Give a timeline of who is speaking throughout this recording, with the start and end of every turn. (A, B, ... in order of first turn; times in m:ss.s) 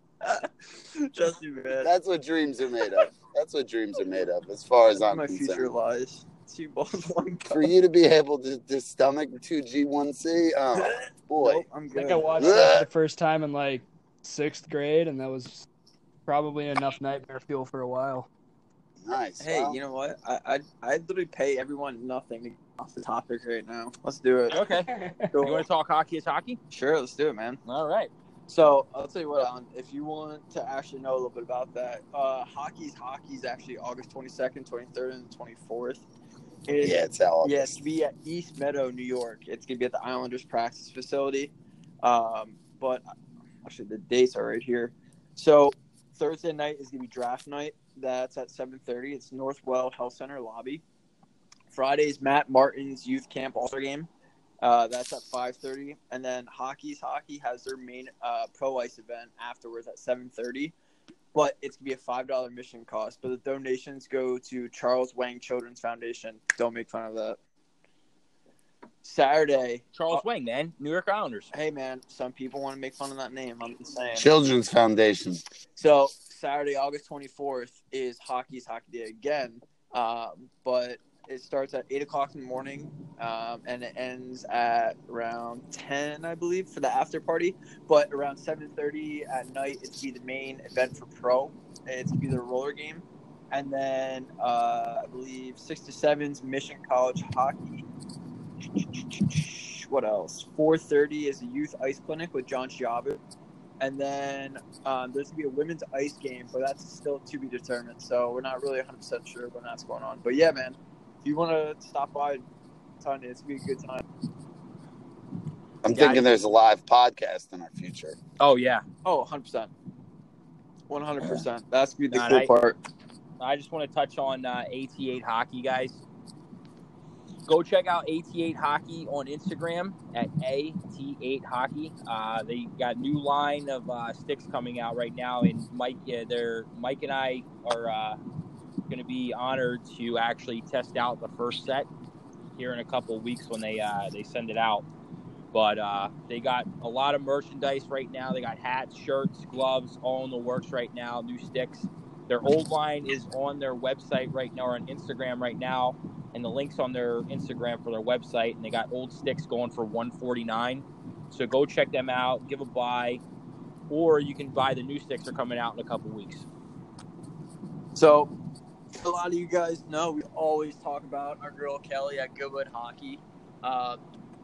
0:00.2-0:01.9 A
0:01.8-0:05.7 B
0:05.0-0:07.7 A
0:07.5-0:11.7 B
0:10.8-0:12.7 A
0:11.9-0:15.7 C
0:12.4-0:12.9 B
0:16.3-0:18.3 C
0:19.0-0:19.8 B
0:19.4-0:24.6 A
0:24.5-0:26.6 D
0:24.9-0:25.3 C
0:25.3-0:25.7 A
0:26.7-0:27.6 A
0:27.7-0:28.1 D
0:28.5-0:36.0 A
0:36.7-0:41.5 A
0:36.8-0:37.8 B
0:42.0-0:43.0 A
0:43.6-0:50.8 A
0:51.7-0:54.1 A
0:54.6-1:00.7 A
1:01.3-1:07.4 A
1:09.0-1:10.2 A
1:10.0-1:11.5 D
1:11.5-1:14.3 A
1:14.2-1:15.4 B
1:15.8-1:37.9 A
1:38.8-1:43.2 A
1:43.8-1:52.4 A
1:53.0-1:54.0 A
1:55.8-1:58.2 B
1:55.9-1:56.3 D
1:58.4-1:58.8 D
1:59.0-1:59.7 A
2:00.9-2:02.8 A
2:02.1-2:02.5 D
2:03.4-2:06.0 D
2:07.5-2:18.2 D
2:18.9-2:21.9 D
2:22.6-2:24.8 D
2:25.5-2:43.2 D
2:43.9-2:46.5 D
2:48.0-2:48.3 A
2:49.0-2:54.0 A